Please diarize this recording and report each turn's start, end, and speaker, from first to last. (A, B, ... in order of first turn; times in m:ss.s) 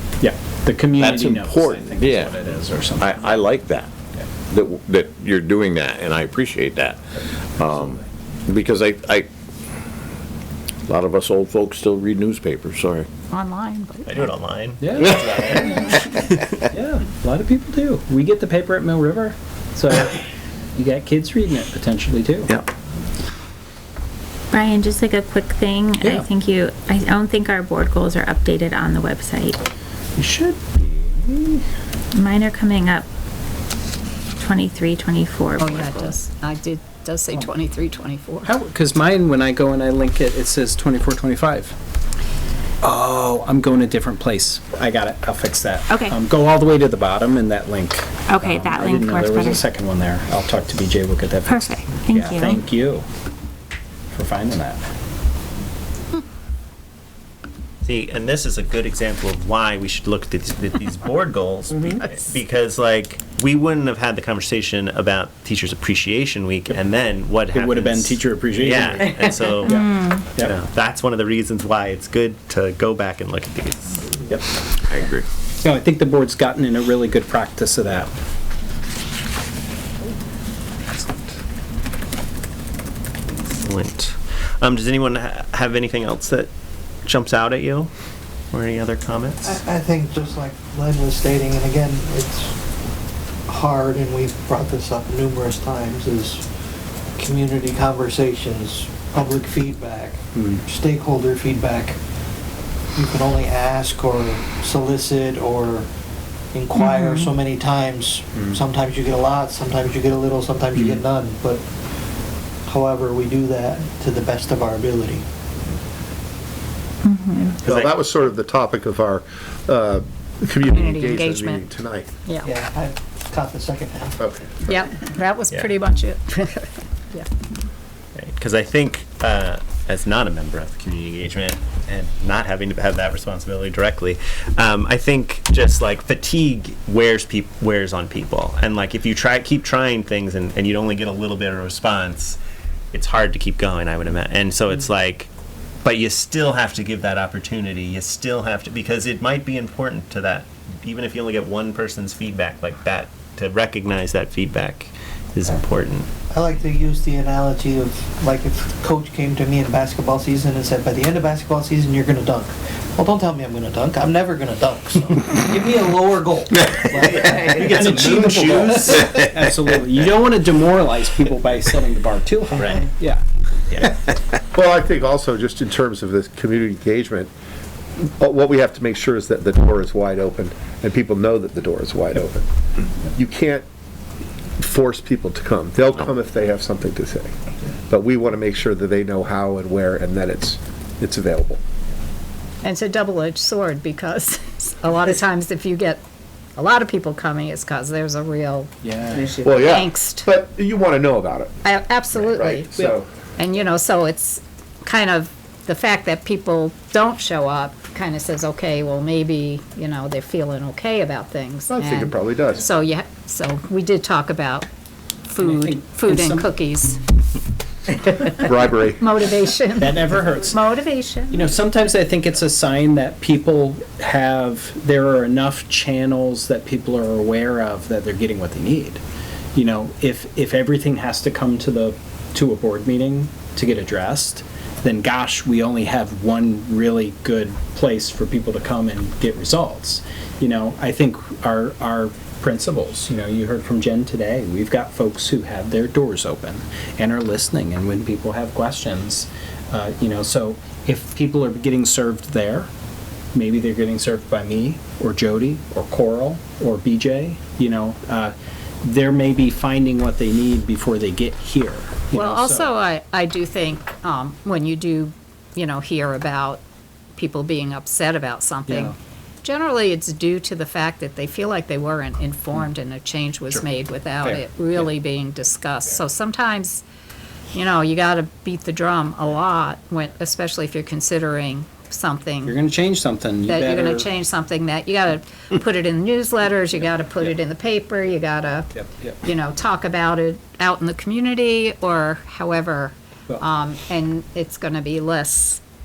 0:00.2-0:03.4 A
0:01.0-0:02.4 B
0:03.0-0:09.3 B
0:10.9-0:13.1 B
0:13.3-0:14.3 C
0:14.1-0:16.5 D
0:14.8-0:16.0 A
0:16.7-0:22.5 A
0:24.5-0:29.6 E
0:26.0-0:26.3 A
0:30.2-0:31.6 A
0:32.1-0:33.1 E
0:34.4-0:36.1 E
0:35.6-0:38.5 C
0:38.4-0:41.8 A
0:42.8-0:53.0 A
0:45.9-0:46.2 E
0:48.3-0:49.6 E
0:51.5-0:52.6 E
0:54.1-0:54.9 A
0:57.8-1:14.2 D
1:07.5-1:10.6 A
1:09.6-1:10.3 E
1:14.9-1:15.3 B
1:15.6-1:18.1 A
1:23.6-1:26.5 D
1:27.0-1:27.9 D
1:28.5-1:29.6 D
1:29.4-1:32.6 F
1:33.5-1:36.4 F
1:37.2-1:42.0 F
1:40.4-1:40.6 A
1:43.0-1:45.9 F
1:46.5-1:51.6 F
1:46.8-1:47.3 E
1:52.7-1:55.3 F
1:57.0-1:57.6 E
1:57.6-1:58.0 D
1:57.6-2:02.1 G
2:00.7-2:01.7 C
2:02.4-2:04.2 F
2:04.2-2:04.6 G
2:04.7-2:07.3 C
2:08.2-2:22.4 D
2:22.9-2:25.3 D
2:25.8-2:36.1 D
2:36.3-2:47.8 F
2:46.8-2:49.3 D
2:47.7-2:54.0 A
2:48.0-2:49.0 G
2:52.6-2:52.9 D
2:54.5-2:57.3 G
2:58.0-3:02.4 G
3:03.2-3:03.6 G
3:04.6-3:07.3 G
3:07.9-3:11.6 G
3:12.6-3:16.0 C
3:16.6-3:20.3 C
3:18.8-3:19.3 A
3:19.4-3:21.6 G
3:21.6-3:22.7 C
3:22.1-3:23.1 G
3:23.4-3:34.7 C
3:31.7-3:32.7 G
3:35.3-3:37.0 C
3:35.4-3:36.5 A
3:38.4-3:39.1 G
3:39.0-3:41.5 C
3:39.8-3:40.6 A
3:41.3-3:49.0 A
3:49.6-4:12.7 A
4:13.3-4:22.7 A
4:22.1-4:26.6 C
4:27.2-4:36.8 C
4:28.7-4:29.0 A
4:34.2-4:34.9 A
4:37.5-4:42.6 C
4:42.4-4:44.1 A
4:43.5-4:55.6 C
4:48.8-4:49.2 A